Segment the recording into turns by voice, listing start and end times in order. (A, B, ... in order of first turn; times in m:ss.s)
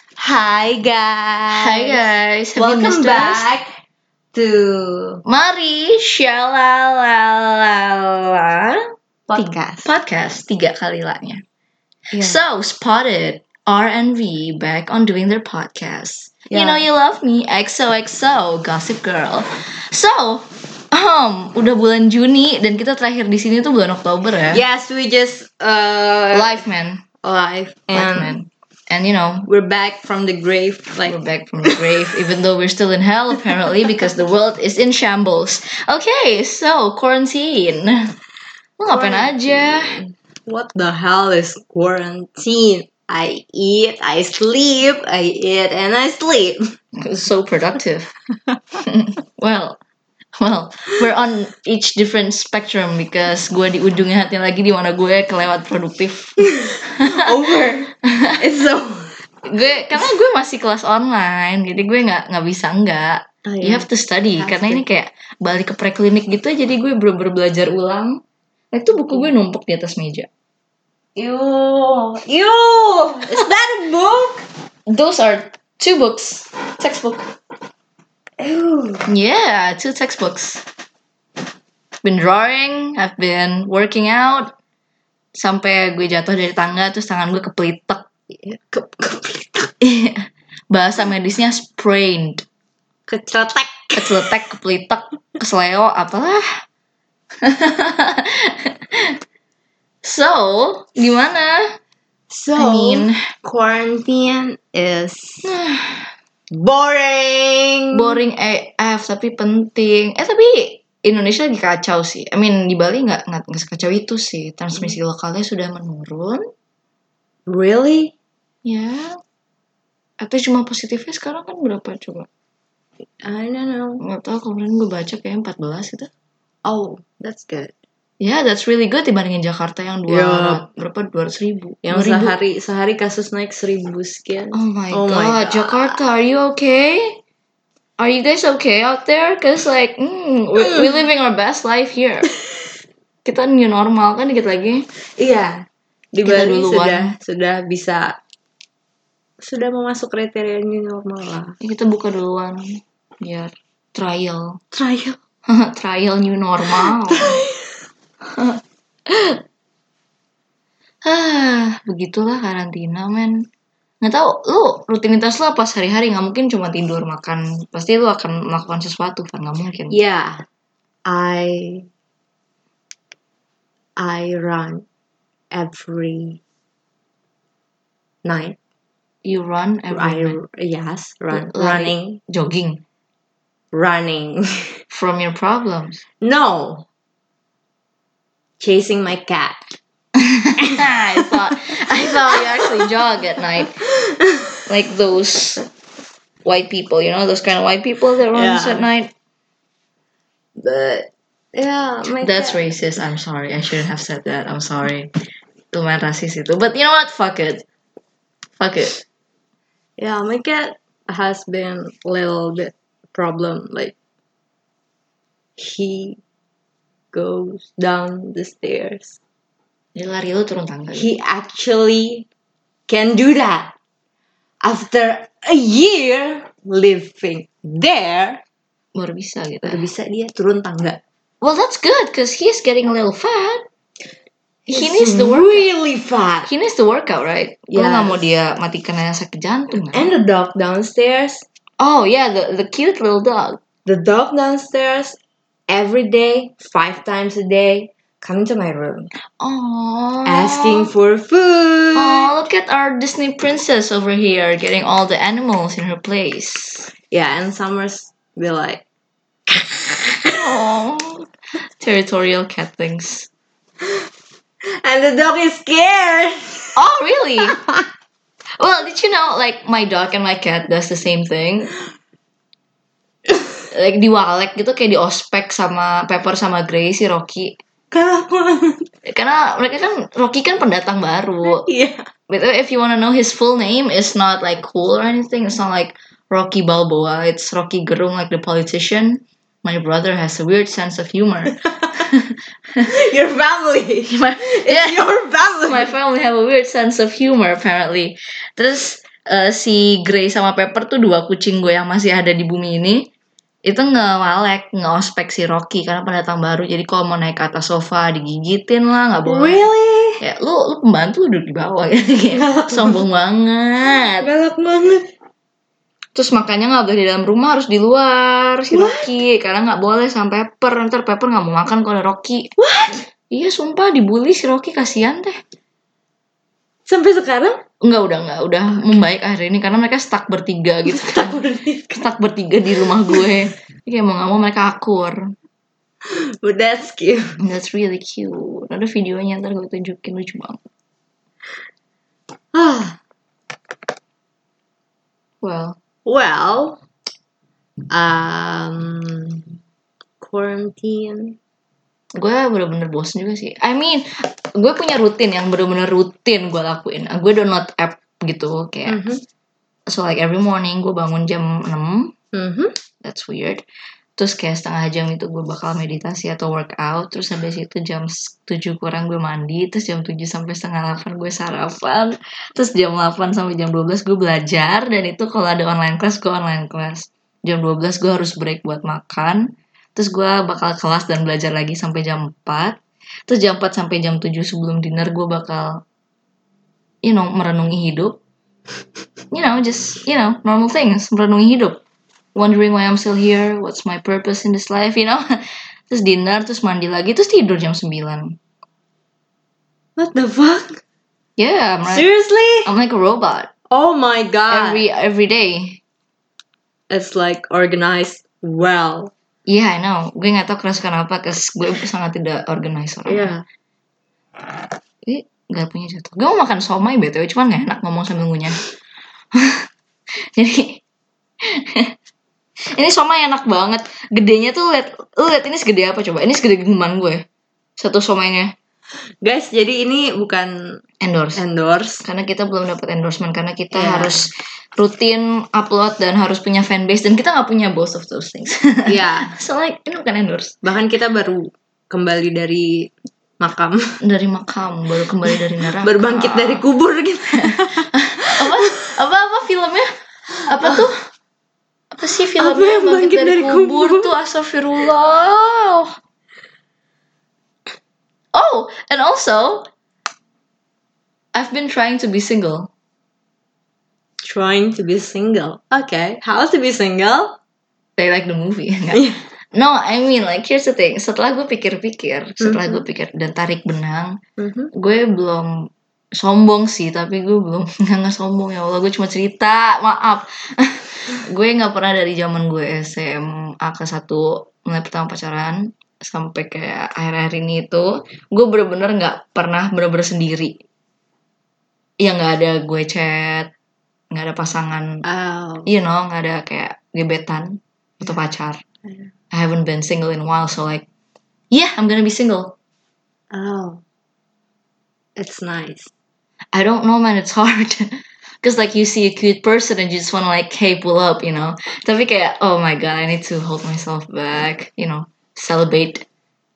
0:00.2-0:02.0 A
0:01.5-0:03.5 B
0:02.6-0:03.7 A
0:04.3-0:05.2 A
0:05.3-0:11.4 B
0:09.3-0:09.9 A
0:12.1-0:12.4 A
0:12.2-0:24.6 B
0:16.5-0:16.9 A
0:24.5-0:26.6 A
0:26.3-0:27.0 B
0:27.2-0:28.4 A
0:27.9-0:29.5 B
0:29.5-0:32.2 A
0:31.0-0:38.1 B
0:38.8-0:40.0 B
0:38.9-0:46.6 A
0:47.0-0:48.1 B
0:48.8-0:49.8 B
0:50.4-0:57.3 B
0:56.5-0:59.2 A
0:58.1-0:58.4 B
0:59.5-1:08.2 B
1:03.4-1:04.8 A
1:08.7-1:10.3 B
1:11.2-1:14.4 A
1:14.9-1:17.3 B
1:18.4-1:19.1 A
1:19.1-1:20.6 B
1:22.0-1:24.5 B
1:25.4-1:28.1 B
1:28.3-1:29.7 A
1:29.8-1:32.4 B
1:33.1-1:34.3 A
1:34.0-1:36.5 B
1:37.4-1:39.2 B
1:40.0-1:41.8 B
1:42.3-1:45.4 A
1:42.6-1:43.2 B
1:45.4-1:46.1 B
1:46.5-1:48.2 A
1:47.9-1:56.4 B
1:57.5-1:58.1 A
1:58.6-1:59.2 B
2:00.2-2:02.3 B
2:03.2-2:04.0 A
2:04.0-2:06.1 B
2:06.6-2:07.7 A
2:08.2-2:12.4 B
2:10.1-2:10.6 A
2:11.8-2:16.0 A
2:14.5-2:17.2 B
2:18.0-2:22.3 B
2:23.2-2:24.8 B
2:25.2-2:28.2 A
2:26.2-2:27.1 B
2:29.4-2:31.6 A
2:31.6-2:32.6 B
2:33.2-2:34.6 B
2:34.7-2:35.2 A
2:35.5-2:37.4 B
2:36.8-2:37.7 A
2:38.3-2:39.4 B
2:41.0-2:43.4 B
2:44.0-2:50.0 B
2:49.9-2:50.4 A
2:51.1-2:51.9 A
2:54.0-2:54.8 A
2:55.5-2:56.4 A
2:58.2-2:58.6 A
2:59.2-3:00.4 B
2:59.9-3:02.2 A
3:01.3-3:02.8 B
3:03.7-3:04.7 A
3:04.9-3:06.0 B
3:06.2-3:06.9 A
3:08.6-3:09.7 A
3:10.2-3:13.8 B
3:10.6-3:12.9 A
3:13.6-3:14.6 A
3:14.7-3:15.6 B
3:16.4-3:19.1 B
3:18.3-3:18.9 A
3:20.7-3:21.0 B
3:21.5-3:22.6 A
3:22.2-3:25.1 B
3:25.7-3:27.6 B
3:28.6-3:29.0 B
3:30.0-3:34.0 A
3:35.6-3:36.2 A
3:37.1-3:39.2 A
3:40.0-3:41.2 B
3:40.9-3:42.3 A
3:42.9-3:43.7 A
3:44.6-3:48.4 A
3:49.0-3:49.8 B
3:49.6-3:51.0 A
3:51.4-3:53.6 B
3:54.7-3:56.5 A
3:54.7-3:55.7 B
3:56.4-4:00.1 B
3:57.7-3:58.3 A
3:59.8-4:01.4 A
4:01.8-4:03.6 B
4:03.8-4:05.2 A
4:05.7-4:09.1 A
4:09.4-4:10.9 B
4:10.3-4:12.3 A
4:12.0-4:16.9 B
4:17.1-4:18.8 A
4:19.5-4:20.5 A
4:20.3-4:23.3 B
4:23.8-4:24.1 A
4:24.7-4:26.8 A
4:26.8-4:27.6 B
4:27.4-4:27.9 A
4:28.6-4:31.7 B
4:33.7-4:37.6 B
4:37.9-4:38.9 A
4:39.0-4:41.7 B
4:41.4-4:42.1 A
4:42.3-4:52.9 B
4:52.9-4:55.9 A
4:54.1-5:03.1 B
5:03.6-5:09.7 B
5:09.2-5:10.2 A
5:10.2-5:14.3 B
5:12.3-5:13.0 A
5:14.2-5:15.1 A
5:16.2-5:22.5 B
5:18.7-5:19.1 A
5:22.6-5:23.0 A
5:23.3-5:25.4 B
5:26.9-5:27.6 A
5:27.8-5:31.4 B
5:30.9-5:32.1 A
5:32.0-5:35.3 B
5:32.8-5:33.4 A
5:36.0-5:37.4 A
5:37.4-5:40.6 B
5:42.5-5:43.0 A
5:45.4-5:45.8 B
5:46.0-5:46.8 A
5:47.9-5:49.5 A
5:50.2-5:51.4 A
5:52.2-5:59.0 B
5:58.9-5:59.2 A
5:59.9-6:02.1 B
6:02.3-6:02.8 A
6:03.0-6:03.6 B
6:04.2-6:25.8 B
6:27.0-6:28.2 B
6:29.3-6:31.8 B
6:32.4-6:35.4 B
6:35.9-6:38.4 B
6:40.0-6:40.8 A
6:41.4-6:42.1 B
6:41.9-6:42.7 A
6:42.6-6:43.5 B
6:43.7-6:44.8 A
6:44.5-6:45.8 B
6:46.9-6:49.1 A
6:49.5-6:53.4 B
6:53.1-6:53.4 A
6:55.0-6:58.6 B
6:59.3-6:59.7 B
7:00.3-7:00.8 B
7:01.4-7:01.9 B
7:02.8-7:07.2 B
7:07.8-7:08.5 B
7:09.2-7:10.5 A
7:11.0-7:11.4 B
7:11.4-7:12.0 A
7:12.0-7:20.6 B
7:13.7-7:14.2 A
7:18.9-7:19.4 A
7:20.6-7:24.0 A
7:24.0-7:26.6 B
7:25.3-7:28.8 A
7:27.9-7:29.9 B
7:30.4-7:31.0 B
7:31.9-7:36.0 B
7:32.4-7:34.1 A
7:38.3-7:39.7 B
7:41.3-7:42.7 B
7:44.2-7:47.4 A
7:48.0-7:54.2 B
7:48.9-7:49.2 A
7:52.4-7:52.8 A
7:54.4-7:54.7 A
7:54.7-8:10.6 B
8:12.0-8:13.5 B
8:14.1-8:15.0 B
8:15.0-8:15.7 A
8:15.7-8:18.6 B
8:19.3-8:20.8 B
8:21.5-8:22.6 B
8:23.3-8:23.8 A
8:25.2-8:25.9 A
8:26.5-8:27.9 B
8:28.4-8:36.1 B